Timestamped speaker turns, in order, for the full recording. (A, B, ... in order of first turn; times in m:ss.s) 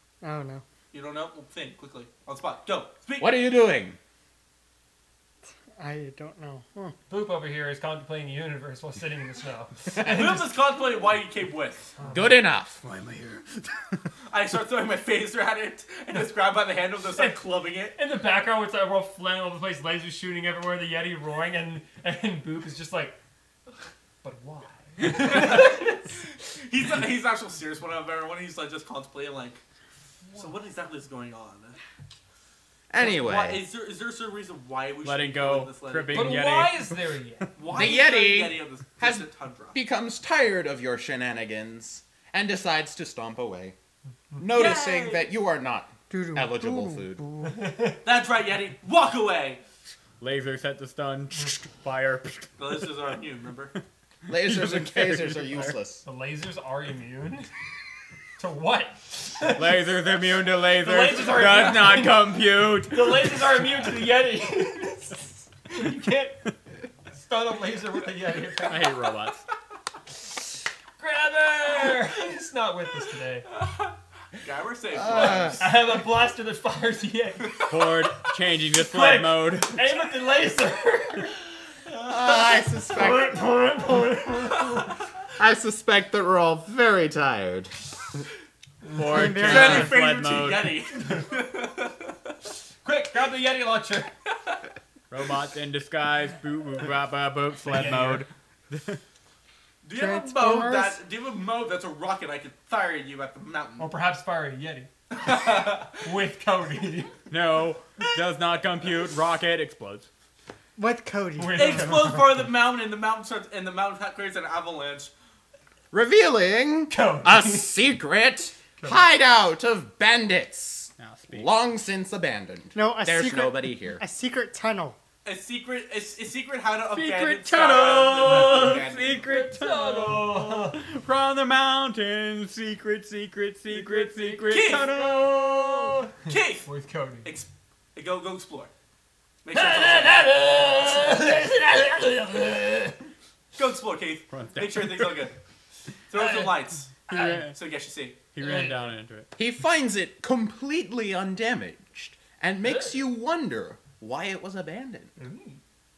0:00.2-0:00.6 A
0:00.9-0:03.4 B
0:03.2-0:04.0 C
0:05.7-0:06.9 A
0:07.1-0:10.5 D
0:10.0-0:11.9 B
0:12.1-0:12.8 C
0:12.8-0:14.0 E
0:14.3-0:17.9 B
0:17.1-0:17.4 D
0:17.9-0:23.2 D
0:24.2-0:26.0 D
0:25.1-0:26.0 B
0:26.6-0:29.6 B
0:30.2-0:30.5 D
0:30.4-0:31.8 B
0:32.9-0:33.6 C
0:33.0-0:36.4 B
0:35.0-0:37.0 E
0:36.1-0:37.5 D
0:37.6-0:39.8 B
0:37.7-0:43.8 C
0:44.4-0:47.2 C
0:44.5-0:45.3 B
0:46.1-0:47.5 A
0:47.5-0:48.0 D
0:48.0-0:49.6 B
0:50.2-0:52.5 E
0:52.6-0:53.7 B
0:54.3-0:55.7 E
0:54.3-0:56.0 C
0:56.0-0:57.5 D
0:58.4-0:59.6 D
0:59.5-1:03.1 E
1:00.8-1:02.3 D
1:02.8-1:06.4 D
1:07.1-1:08.9 D
1:08.6-1:09.4 E
1:11.0-1:13.5 D
1:13.6-1:15.9 B
1:14.9-1:15.6 C
1:15.6-1:17.7 D
1:17.7-1:19.8 E
1:18.8-1:21.4 D
1:22.0-1:23.4 C
1:22.0-1:24.9 D
1:25.4-1:27.7 C
1:28.9-1:30.7 E
1:29.0-1:30.0 A
1:29.3-1:32.0 B
1:32.8-1:34.1 D
1:35.1-1:39.0 E
1:37.6-1:38.2 D
1:39.8-1:43.9 B
1:39.9-1:41.0 A
1:43.8-1:47.1 D
1:45.2-1:46.0 B
1:47.3-1:50.1 E
1:50.8-1:51.7 A
1:51.4-1:52.4 D
1:51.5-1:55.1 B
1:55.9-2:04.0 C
1:56.9-1:57.8 D
2:01.0-2:01.5 E
2:02.7-2:05.0 A
2:05.2-2:09.2 B
2:06.9-2:16.0 E
2:08.2-2:10.8 D
2:13.7-2:16.1 D
2:14.4-2:15.0 B
2:16.2-2:16.7 B
2:16.6-2:17.3 D
2:17.2-2:18.7 B
2:19.4-2:20.3 B
2:19.5-2:23.0 D
2:23.6-2:25.4 B
2:24.3-2:25.2 E
2:26.1-2:28.2 B
2:26.1-2:26.5 D
2:27.1-2:27.5 E
2:27.1-2:27.4 D
2:28.3-2:29.3 E
2:28.4-2:28.9 D
2:29.4-2:35.1 C
2:32.6-2:33.0 D
2:35.2-2:35.6 D